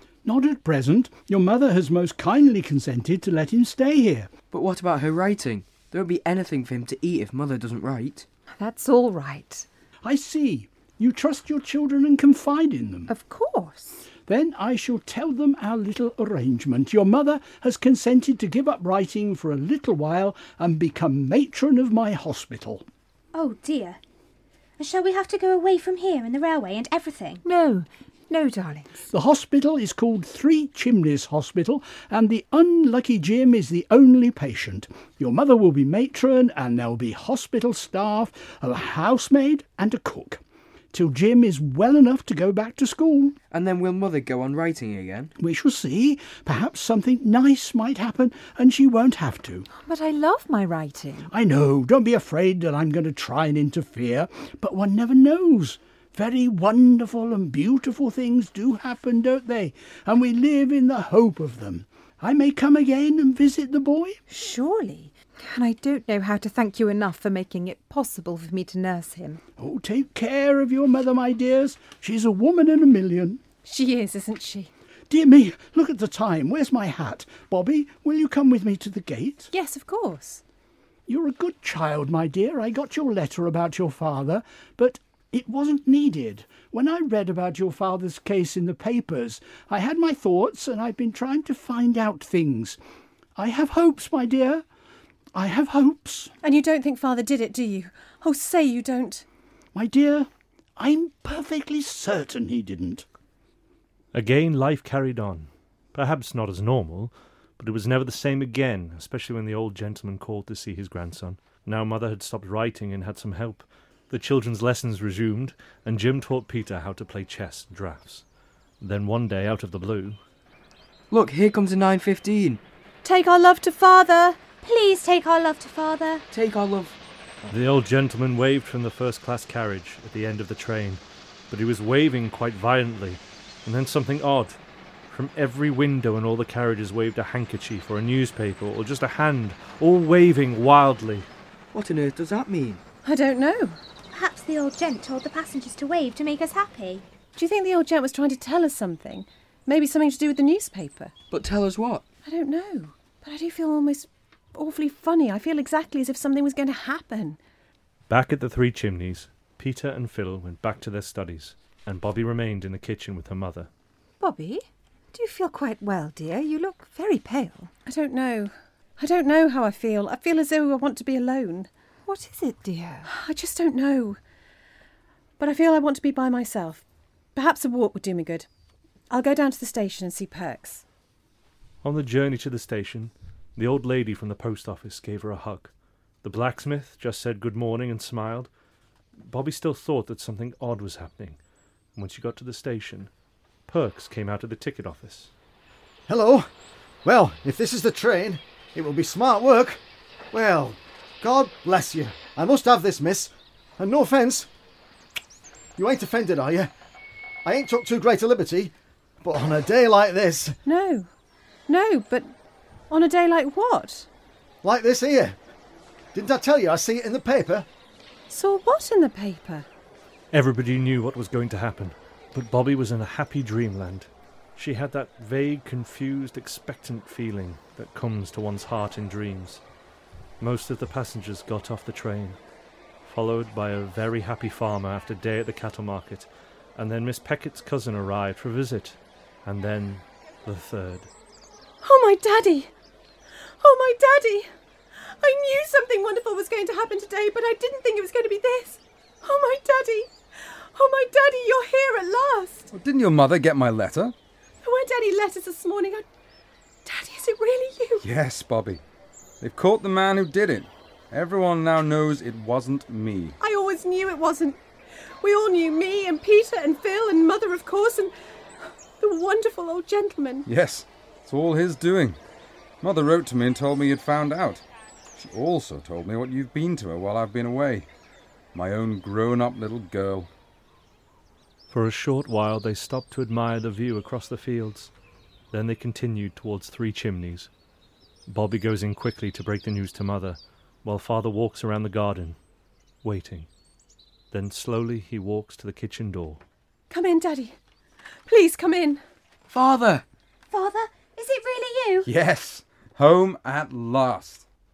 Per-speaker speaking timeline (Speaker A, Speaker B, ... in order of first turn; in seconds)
Speaker A: 0.2-4.3, 10.0-13.1, 14.3-22.9, 29.1-40.4, 40.9-43.4, 45.4-49.7, 51.3-64.2, 69.6-73.4, 75.1-79.5, 81.1-92.8, 93.4-94.6, 95.3-96.3, 99.7-103.1
Speaker B: 4.5-8.3, 43.5-45.3, 121.1-122.6, 126.3-127.0, 141.7-142.8, 151.3-152.1, 299.5-300.1
Speaker C: 8.6-9.7, 13.1-14.1, 27.4-29.0, 49.7-51.3, 64.3-69.4, 164.2-167.7, 172.1-173.1
Speaker D: 23.3-24.0, 24.8-27.4, 124.6-126.2, 144.1-147.1, 300.5-302.1
Speaker E: 73.7-74.7, 79.5-80.4, 96.4-99.2, 123.0-124.4, 143.0-143.8, 147.4-151.1, 152.2-157.4, 167.9-171.7, 173.1-174.2, 175.4-176.8, 177.3-178.5, 179.1-180.8, 210.7-211.1, 211.7-212.3, 212.9-214.1, 218.3-219.7, 241.8-242.7, 243.6-244.5, 245.1-252.7, 254.6-256.0, 256.9-258.1, 263.4-264.6, 265.2-268.1, 269.0-270.4, 296.9-297.6, 298.3-299.0
Speaker F: 104.1-118.2, 118.8-120.2, 127.5-141.3, 158.1-163.7, 181.8-185.7, 186.2-188.5, 189.2-191.4, 191.9-193.1, 193.7-195.3, 220.3-229.6, 230.4-232.4, 233.0-241.1, 281.7-284.9, 285.5-287.5, 288.3-292.4, 293.0-293.5, 294.3-296.4
Speaker G: 196.1-196.5, 197.0-199.8, 200.3-204.5, 205.8-206.7, 207.4-210.6, 214.6-215.4, 216.1-217.7
Speaker H: 252.7-254.1, 258.0-258.8, 259.4-263.4, 270.5-272.2, 272.8-274.6, 275.1-277.9, 278.5-280.3, 302.1-304.5